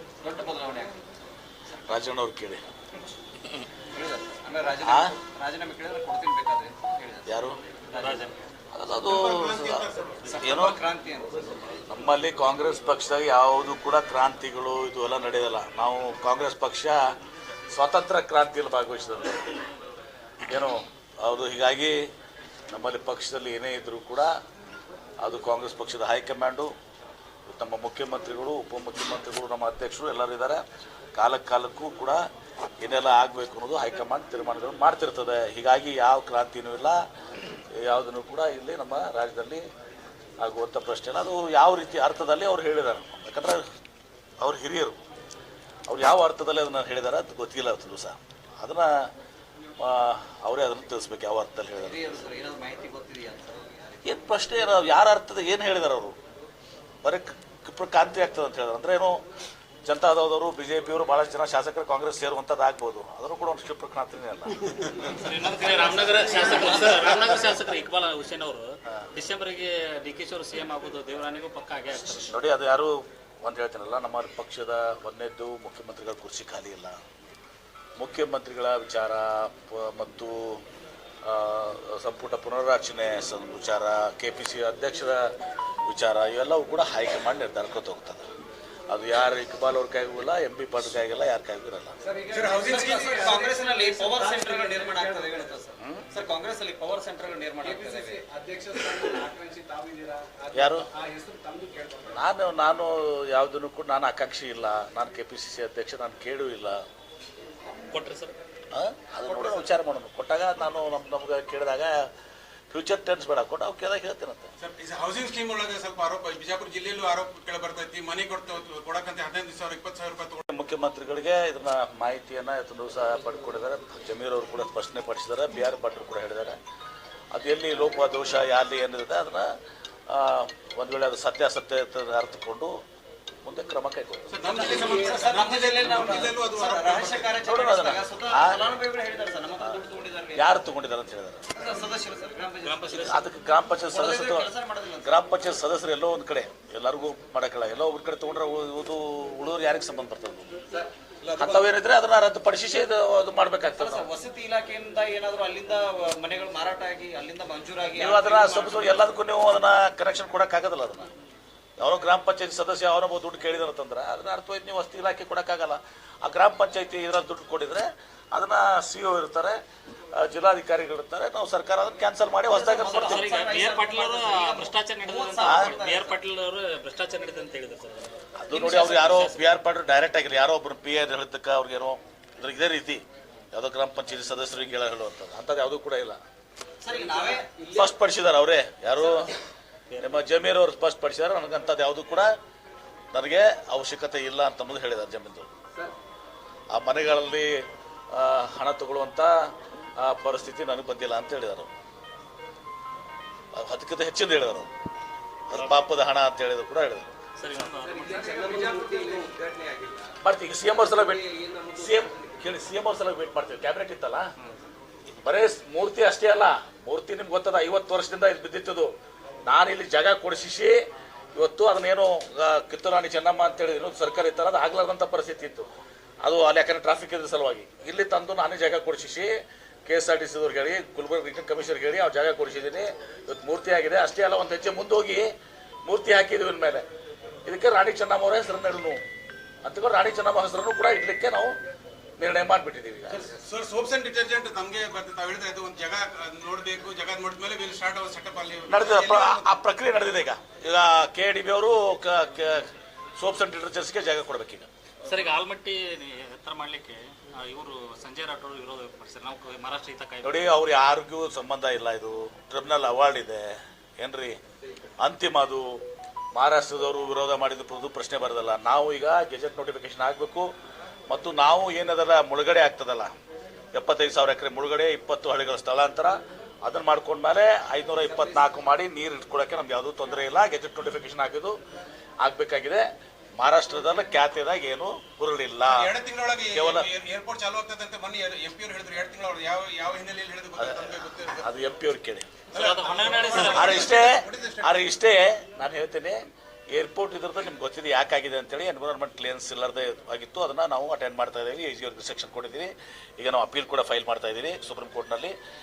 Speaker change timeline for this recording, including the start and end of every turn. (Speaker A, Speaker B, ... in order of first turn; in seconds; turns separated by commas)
Speaker A: 0.2-1.0, Speaker B: 1.9-2.6, Speaker A: 3.9-7.3, Speaker B: 4.8-5.2, Speaker B: 7.3-7.6, Speaker A: 7.9-8.2, Speaker C: 8.0-8.4, Speaker B: 8.7-9.9, Speaker D: 9.0-10.5, Speaker A: 10.2-11.5, Speaker B: 10.4-10.8, Speaker B: 11.9-17.1, Speaker B: 17.7-19.6, Speaker B: 20.4-22.0, Speaker B: 22.7-24.3, Speaker B: 25.2-26.7, Speaker B: 27.5-30.6, Speaker B: 31.2-32.2, Speaker B: 32.8-37.0, Speaker B: 37.7-39.6, Speaker B: 40.4-43.6, Speaker B: 44.4-45.0, Speaker B: 45.9-49.1, Speaker B: 49.8-52.2, Speaker A: 51.8-54.2, Speaker B: 54.0-56.1, Speaker B: 57.0-59.2, Speaker B: 59.8-64.9, Speaker C: 65.0-72.3, Speaker B: 72.2-77.0, Speaker B: 78.0-80.6, Speaker B: 81.2-85.3, Speaker B: 85.9-88.2, Speaker B: 88.9-91.9, Speaker E: 92.0-95.2, Speaker D: 92.3-93.3, Speaker A: 92.5-98.2, Speaker B: 95.8-96.1, Speaker E: 97.6-102.2, Speaker B: 100.5-100.9, Speaker B: 102.1-106.8, Speaker C: 107.9-108.3, Speaker B: 108.7-112.1, Speaker B: 112.7-114.5, Speaker D: 114.6-120.5, Speaker B: 120.5-126.6, Speaker B: 127.3-129.5, Speaker B: 130.1-132.7, Speaker B: 133.4-134.3, Speaker D: 134.3-137.4, Speaker A: 134.4-140.6, Speaker B: 137.4-138.6, Speaker B: 140.3-141.4, Speaker A: 141.5-143.2, Speaker C: 142.6-143.2, Speaker B: 142.9-144.5, Speaker A: 143.8-145.2, Speaker B: 145.0-150.6, Speaker A: 150.7-151.6, Speaker B: 151.3-154.1, Speaker A: 153.8-159.1, Speaker B: 158.0-161.1, Speaker B: 161.8-169.6, Speaker B: 170.1-173.3, Speaker A: 172.5-176.2, Speaker C: 172.9-179.5, Speaker B: 175.4-175.8, Speaker B: 178.4-186.2, Speaker A: 186.8-187.6, Speaker E: 187.1-187.8, Speaker B: 187.7-189.3, Speaker C: 189.9-190.2, Speaker B: 190.0-192.3, Speaker B: 193.1-195.5, Speaker B: 196.7-199.4, Speaker B: 200.0-201.7, Speaker B: 203.5-204.7, Speaker B: 205.5-207.1, Speaker C: 205.5-205.8, Speaker C: 207.4-208.2, Speaker A: 207.8-210.1, Speaker E: 207.9-209.3, Speaker B: 210.2-214.3, Speaker A: 210.8-212.1, Speaker B: 215.2-218.9, Speaker B: 219.4-225.7, Speaker B: 226.2-229.3, Speaker B: 229.8-235.3, Speaker B: 235.8-236.8, Speaker B: 237.4-239.0, Speaker B: 239.6-241.6, Speaker B: 242.2-243.3, Speaker D: 243.1-249.5, Speaker B: 248.7-254.7, Speaker C: 255.1-260.5, Speaker B: 260.2-264.4, Speaker B: 265.0-265.8, Speaker B: 266.3-270.5, Speaker B: 271.1-273.1, Speaker B: 273.7-281.6, Speaker B: 282.2-282.9, Speaker B: 283.4-285.9, Speaker D: 285.6-291.5, Speaker B: 286.5-286.9, Speaker B: 290.6-292.3, Speaker C: 292.5-294.0, Speaker D: 292.5-294.9, Speaker B: 293.4-305.3